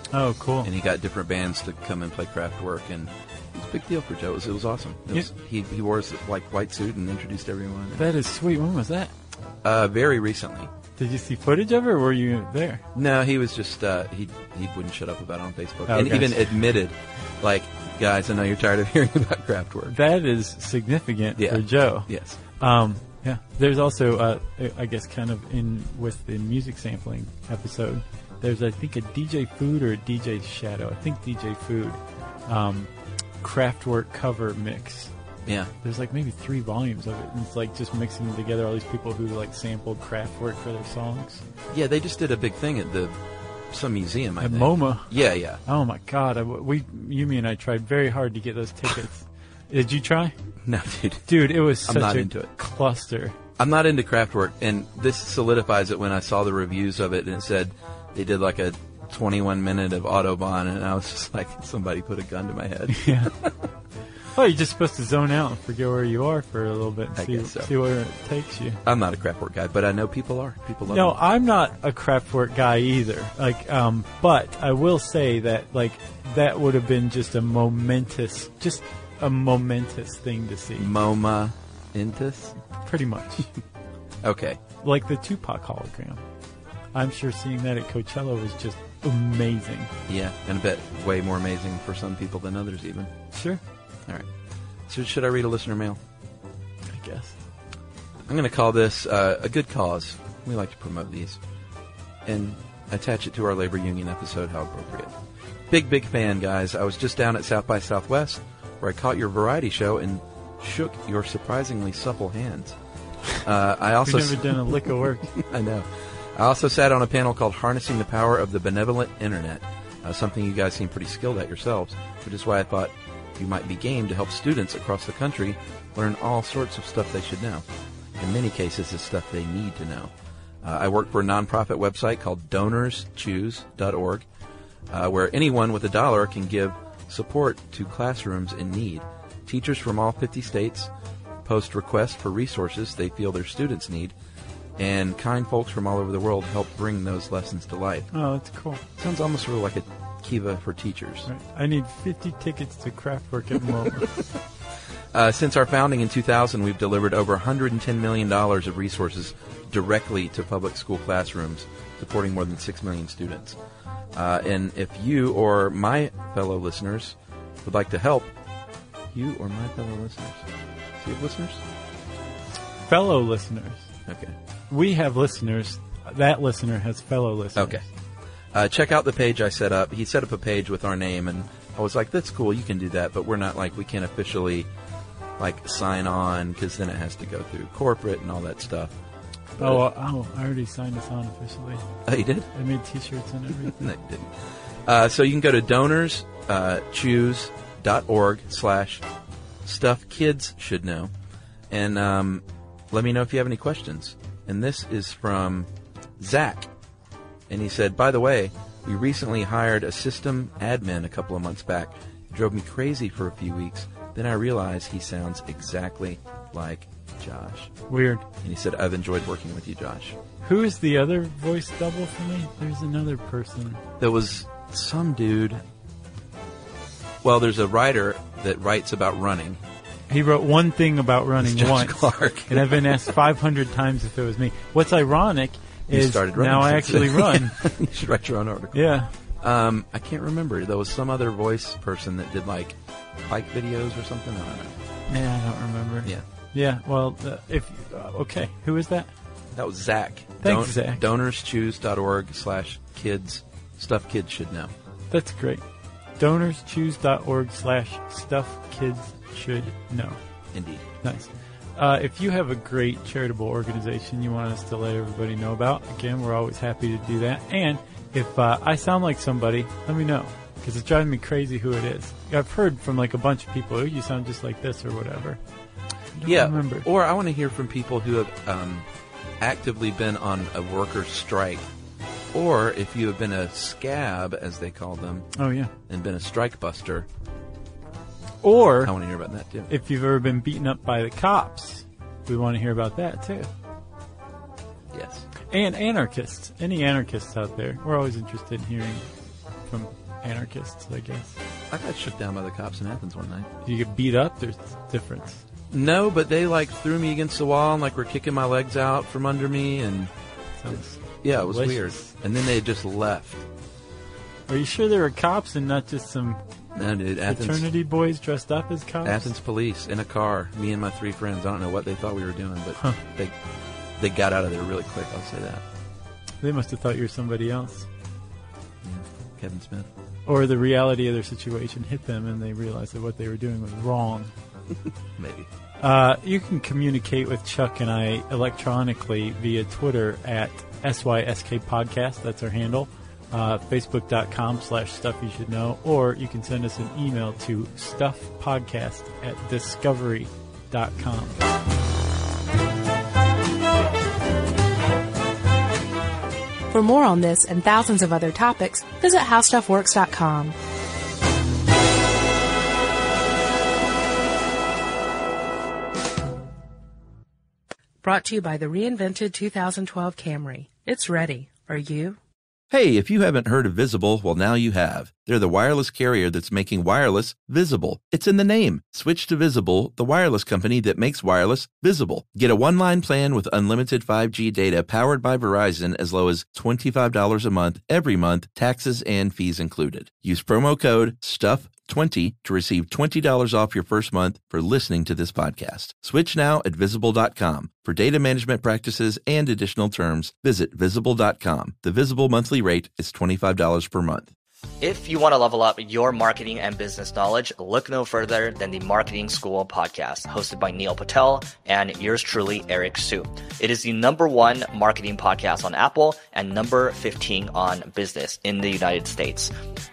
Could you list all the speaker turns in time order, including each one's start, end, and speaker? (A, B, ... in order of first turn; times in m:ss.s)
0:00.1-0:00.7 A
0:00.6-0:08.1 B
0:08.0-0:09.1 A
0:09.6-0:10.7 B
0:11.0-0:12.8 A
0:12.9-0:19.9 B
0:15.9-0:16.4 A
0:19.9-0:35.1 A
0:21.4-0:22.4 B
0:35.8-0:41.4 A
0:41.7-0:43.1 B
0:43.7-0:45.6 B
0:44.4-0:45.1 A
0:45.6-0:50.3 A
0:50.6-0:52.5 B
0:51.3-0:53.4 A
0:53.6-1:03.5 B
1:02.9-1:03.3 A
1:04.3-1:08.8 A
1:07.2-1:07.7 B
1:08.8-1:11.2 B
1:10.9-1:20.9 A
1:20.8-1:22.6 B
1:22.8-1:23.5 A
1:24.2-1:24.6 B
1:24.8-1:26.2 A
1:26.9-1:29.9 A
1:30.1-1:33.1 B
1:33.3-1:33.6 A
1:34.9-1:36.0 B
1:36.9-1:37.4 A
1:38.3-1:41.4 B
1:42.2-1:45.1 B
1:45.7-1:52.7 B
1:53.4-2:07.6 B
1:54.0-1:55.3 A
2:08.2-2:10.1 B
2:10.6-2:14.2 B
2:14.9-2:20.9 B
2:21.4-2:24.1 B
2:24.8-2:28.1 B
2:28.1-2:28.8 A
2:29.0-2:31.3 B
2:31.2-2:34.1 A
2:35.1-2:43.6 B
2:44.1-2:48.3 B
2:49.1-2:50.4 B
2:51.0-2:51.6 B
2:52.8-2:53.9 A
2:54.1-2:54.3 B
2:54.7-2:57.8 A
2:57.6-2:57.8 B
2:58.5-3:04.7 B
3:05.4-3:08.9 B
3:09.6-3:11.8 A
3:12.0-3:12.5 B
3:12.5-3:13.8 A
3:13.6-3:14.3 B
3:14.8-3:19.0 B
3:19.6-3:21.1 B
3:21.7-3:26.7 B
3:27.5-3:37.7 B
3:37.9-3:38.2 A
3:38.4-3:40.2 B
3:40.4-3:43.8 A
3:44.0-3:45.6 B
3:47.2-3:49.6 B
3:50.1-3:57.7 A
3:51.4-3:53.0 B
3:55.9-3:58.9 B
3:58.7-3:59.1 A
3:59.4-4:04.7 B
4:05.1-4:09.1 A
4:09.6-4:14.7 B
4:10.4-4:11.0 A
4:15.1-4:15.6 A
4:16.2-4:20.2 A
4:20.5-4:20.8 B
4:21.0-4:35.4 A
4:36.2-4:36.9 A
4:36.2-4:38.8 B
4:39.4-4:41.7 B
4:42.3-4:45.3 B
4:45.4-4:45.7 A
4:45.9-4:47.1 B
4:48.4-4:48.9 A
4:48.8-4:49.7 B
4:49.7-4:53.5 A
4:54.9-4:55.3 B
4:55.5-4:59.0 A
4:59.7-5:01.4 A
5:01.7-5:03.5 B
5:03.6-5:05.4 A
5:05.7-5:10.1 B
5:10.6-5:12.1 A
5:10.7-5:13.4 B
5:14.5-5:16.4 A
5:16.8-5:17.6 B
5:17.3-5:19.3 A
5:19.0-5:23.3 B
5:24.0-5:25.6 B
5:26.4-5:27.9 A
5:28.8-5:29.9 B
5:30.2-5:34.3 A
5:35.2-5:35.5 B
5:35.8-5:51.4 A
5:56.7-6:00.6 C
6:08.0-6:12.2 C
6:12.7-6:44.3 D
6:44.8-6:59.5 E